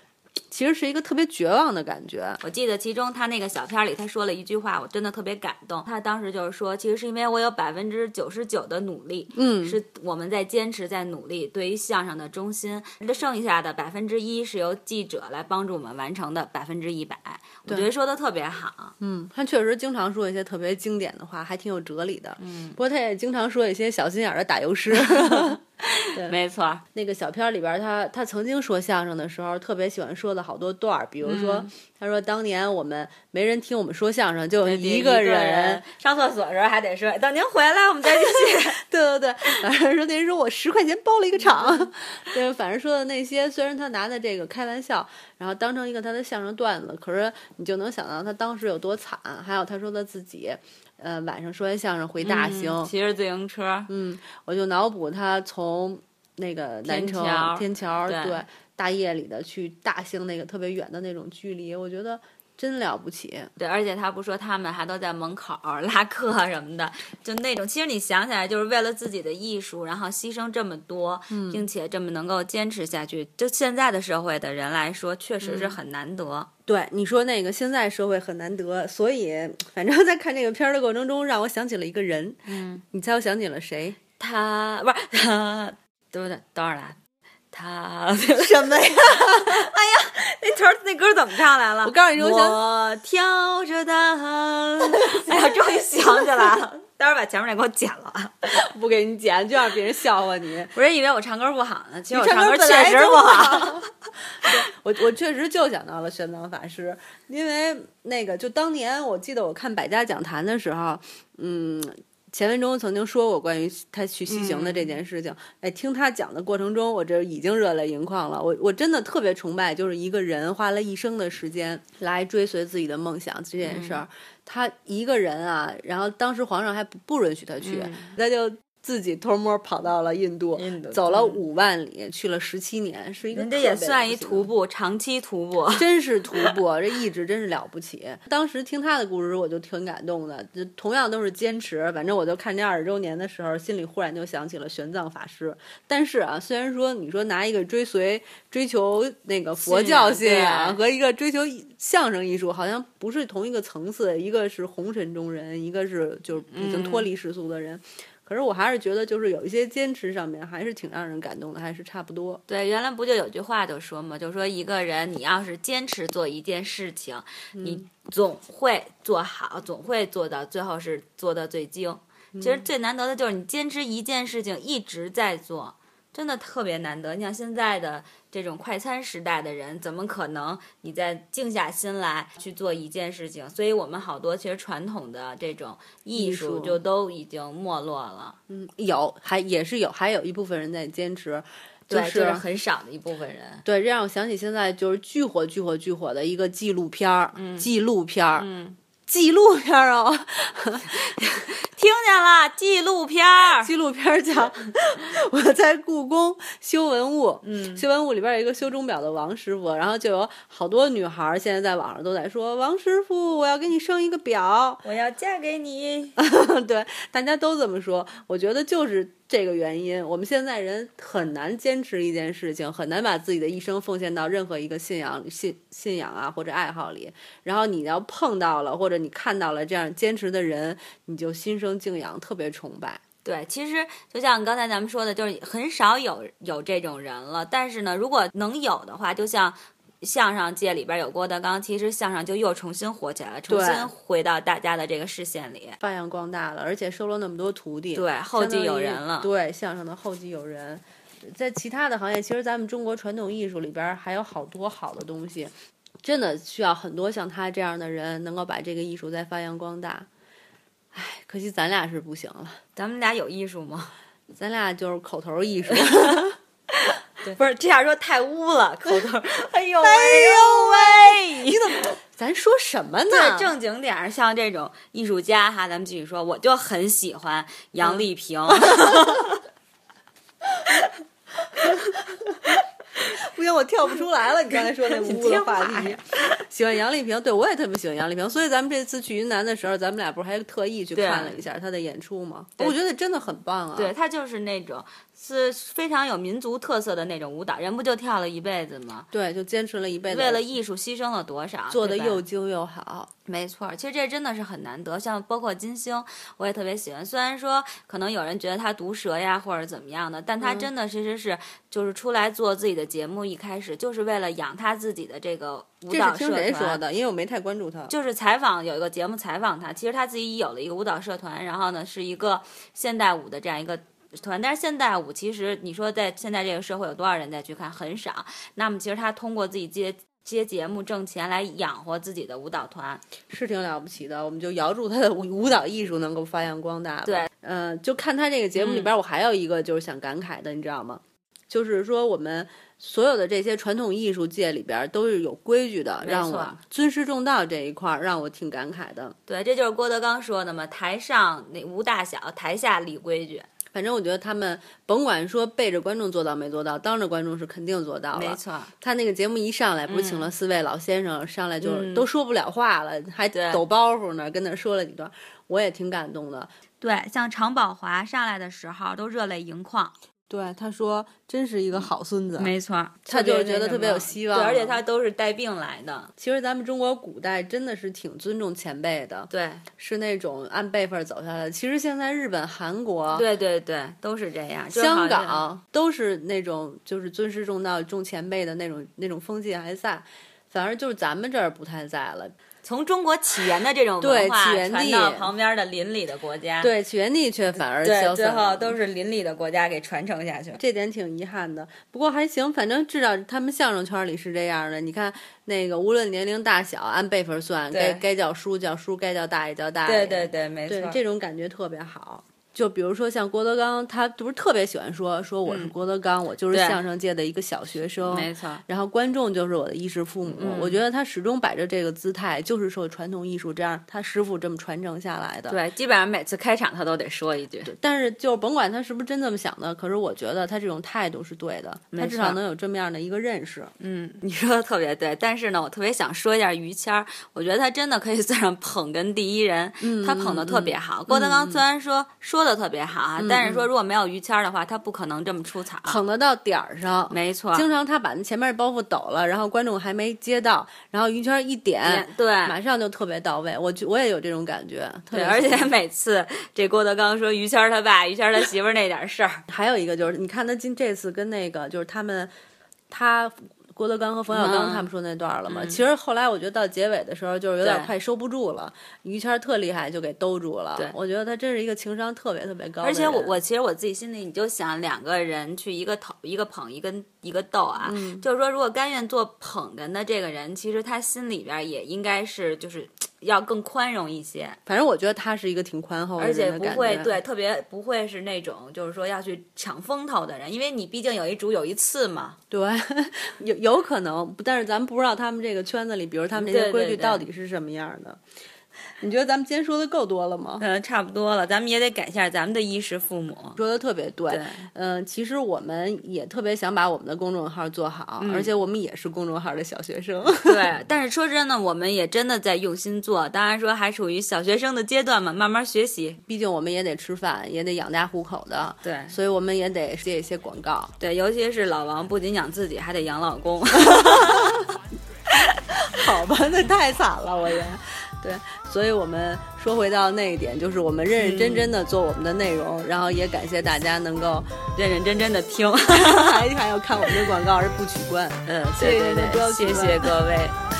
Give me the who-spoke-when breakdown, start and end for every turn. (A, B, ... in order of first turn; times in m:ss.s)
0:00.5-0:02.4 A
0:02.4-0:18.9 B
0:09.3-0:09.8 A
0:19.0-0:25.6 A
0:22.4-0:22.8 B
0:24.9-0:26.8 B
0:26.9-0:35.8 A
0:31.2-0:31.7 B
0:34.6-0:38.8 B
0:38.1-0:52.9 A
0:41.4-0:41.9 B
0:52.2-0:53.9 B
0:53.9-1:03.5 A
0:56.8-0:58.4 B
1:03.6-1:16.5 B
1:11.3-1:11.6 A
1:15.4-1:15.8 A
1:16.7-1:24.0 A
1:22.5-1:22.8 B
1:24.2-1:27.0 B
1:27.5-1:38.5 B
1:28.4-1:29.6 A
1:31.8-1:32.6 A
1:38.5-1:40.7 A
1:40.7-1:43.9 B
1:42.1-1:43.9 A
1:44.4-2:14.5 A
1:54.3-1:55.0 B
2:03.6-2:04.0 B
2:07.6-2:08.1 B
2:10.6-2:11.4 B
2:13.3-2:16.5 B
2:15.7-2:42.4 A
2:29.6-2:30.8 B
2:36.5-2:37.1 B
2:42.5-3:08.4 B
2:47.5-2:47.8 A
2:52.3-2:52.7 A
3:06.1-3:06.8 A
3:08.5-3:12.4 A
3:11.9-3:13.6 B
3:13.6-3:18.5 A
3:17.3-3:17.7 B
3:18.4-3:18.8 B
3:19.1-3:21.1 A
3:21.1-3:23.7 B
3:23.5-3:34.8 A
3:27.4-3:27.8 B
3:34.8-3:36.2 B
3:36.2-3:53.0 A
3:53.2-4:05.8 B
4:03.5-4:03.9 A
4:05.8-4:15.5 A
4:07.9-4:09.3 B
4:16.0-4:20.1 A
4:20.9-4:22.6 A
4:22.8-4:23.9 B
4:24.3-4:26.4 A
4:25.8-4:32.0 B
4:29.8-4:33.5 A
4:33.1-4:39.4 B
4:37.8-4:39.2 A
4:41.6-4:53.9 A
4:41.6-4:41.9 B
4:44.4-4:46.0 B
4:50.9-4:51.4 B
4:53.7-4:59.1 B
4:59.1-5:00.4 A
5:00.1-5:02.2 B
5:01.7-5:03.1 A
5:03.2-5:16.8 B
5:10.4-5:10.7 A
5:15.9-5:17.9 A
5:17.9-5:33.1 B
5:33.3-5:49.1 A
5:38.5-5:38.9 B
5:46.0-5:46.6 B
5:49.2-5:53.5 B
5:53.7-6:06.5 A
5:58.1-5:58.7 B
5:59.9-6:00.3 B
6:01.6-6:02.1 B
6:03.3-6:03.6 B
6:06.8-6:09.9 B
6:10.3-6:12.5 A
6:11.7-6:16.1 B
6:13.0-6:14.8 A
6:16.2-6:23.2 A
6:19.3-6:19.6 B
6:23.1-6:25.4 B
6:24.7-6:32.3 A
6:32.6-6:36.7 B
6:34.0-6:35.3 A
6:36.6-6:38.8 A
6:37.8-6:40.6 B
6:40.6-7:05.6 A
6:47.7-6:48.0 B
6:49.8-6:51.0 B
6:55.4-6:55.7 B
6:56.5-6:56.8 B
6:58.0-6:58.6 B
7:00.3-7:00.8 B
7:05.5-7:07.7 B
7:07.6-7:13.7 A
7:11.9-7:12.4 B
7:13.8-7:26.0 B
7:19.8-7:21.6 A
7:23.2-7:23.7 A
7:25.8-7:35.7 A
7:27.1-7:27.7 B
7:31.8-7:32.6 B
7:35.1-7:39.4 B
7:39.5-7:42.3 A
7:42.9-7:53.4 A
7:44.3-7:44.9 B
7:45.5-7:45.8 B
7:47.6-7:47.9 B
7:52.8-8:04.6 B
7:57.8-7:58.2 A
8:04.7-8:07.2 A
8:06.2-8:12.4 B
8:12.5-8:18.2 A
8:16.3-8:17.3 B
8:19.0-8:20.6 A
8:20.6-8:23.6 B
8:23.6-8:30.7 A
8:24.3-8:24.6 B
8:28.2-8:28.5 B
8:30.4-8:36.2 B
8:36.2-8:40.9 A
8:38.8-8:39.2 B
8:41.0-8:44.7 B
8:43.9-8:44.5 A
8:45.9-8:54.5 A
8:51.2-8:51.8 B
8:54.7-8:56.4 B
8:55.9-9:00.1 A
8:58.4-9:00.6 B